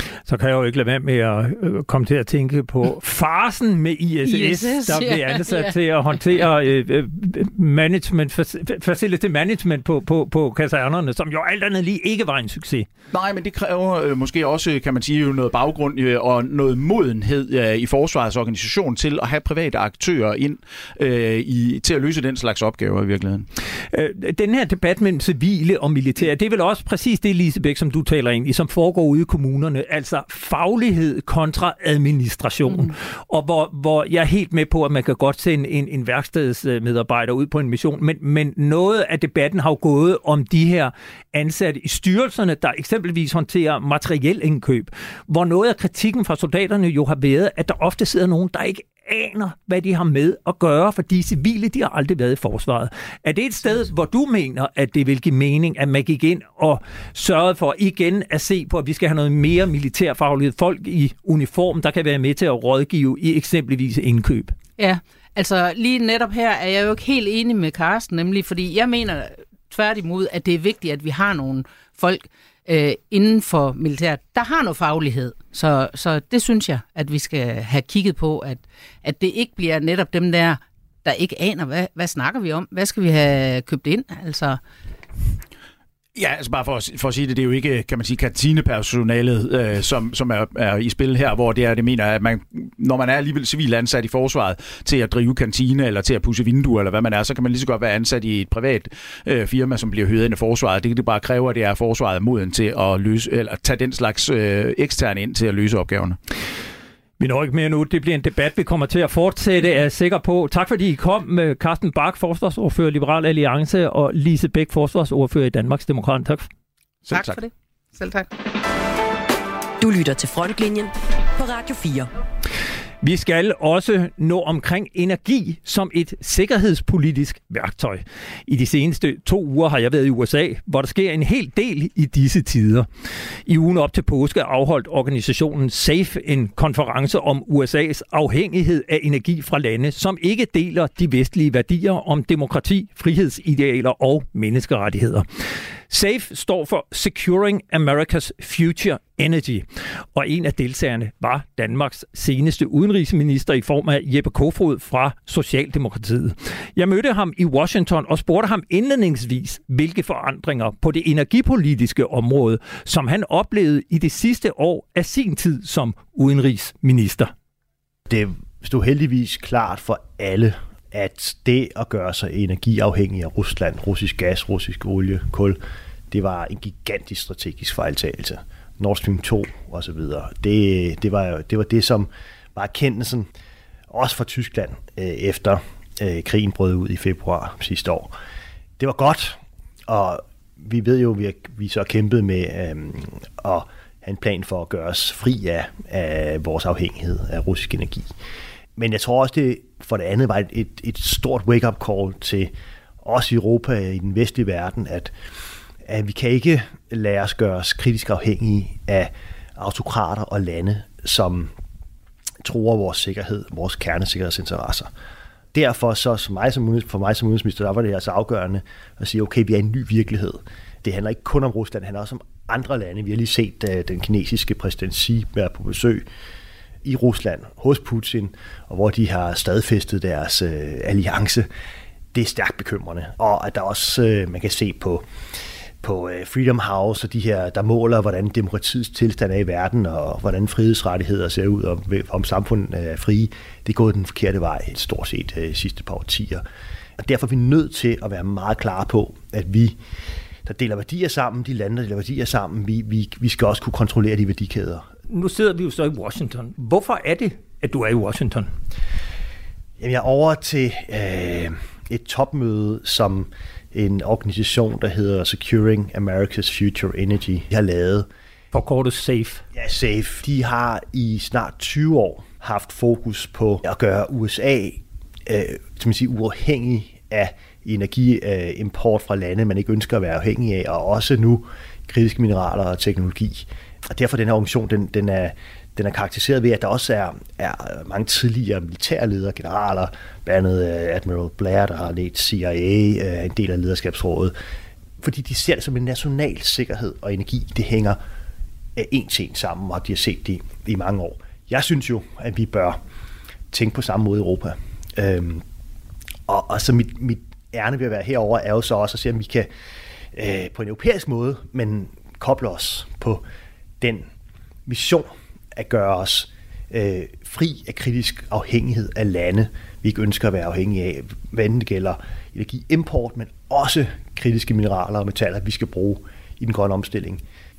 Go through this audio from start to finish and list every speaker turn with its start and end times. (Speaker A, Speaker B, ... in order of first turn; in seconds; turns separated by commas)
Speaker A: 0.3-12.9, Speaker B: 4.2-5.8, Speaker C: 13.1-23.5, Speaker A: 23.9-64.6, Speaker B: 64.8-84.6, Speaker C: 86.2-106.2, Speaker A: 107.2-116.5, Speaker C: 117.1-117.4, Speaker B: 117.1-118.3, Speaker D: 119.8-122.1, Speaker A: 123.0-132.9, Speaker A: 133.5-145.2, Speaker A: 145.9-167.3, Speaker E: 168.1-175.6, Speaker E: 176.1-183.3, Speaker E: 183.9-188.1, Speaker E: 188.8-198.1, Speaker E: 198.8-202.5, Speaker E: 203.0-205.1, Speaker E: 205.8-211.5, Speaker E: 212.4-214.9, Speaker E: 215.5-226.1, Speaker E: 226.8-231.5, Speaker E: 232.1-235.0, Speaker E: 235.8-246.4, Speaker E: 247.0-249.8, Speaker E: 250.4-254.9, Speaker A: 255.1-258.5, Speaker E: 259.8-268.1, Speaker A: 268.5-269.4, Speaker E: 269.5-294.3, Speaker E: 295.0-298.0, Speaker E: 298.8-302.8, Speaker E: 303.5-305.4, Speaker E: 306.3-309.5, Speaker E: 310.1-313.2, Speaker E: 313.8-314.1, Speaker E: 314.7-327.2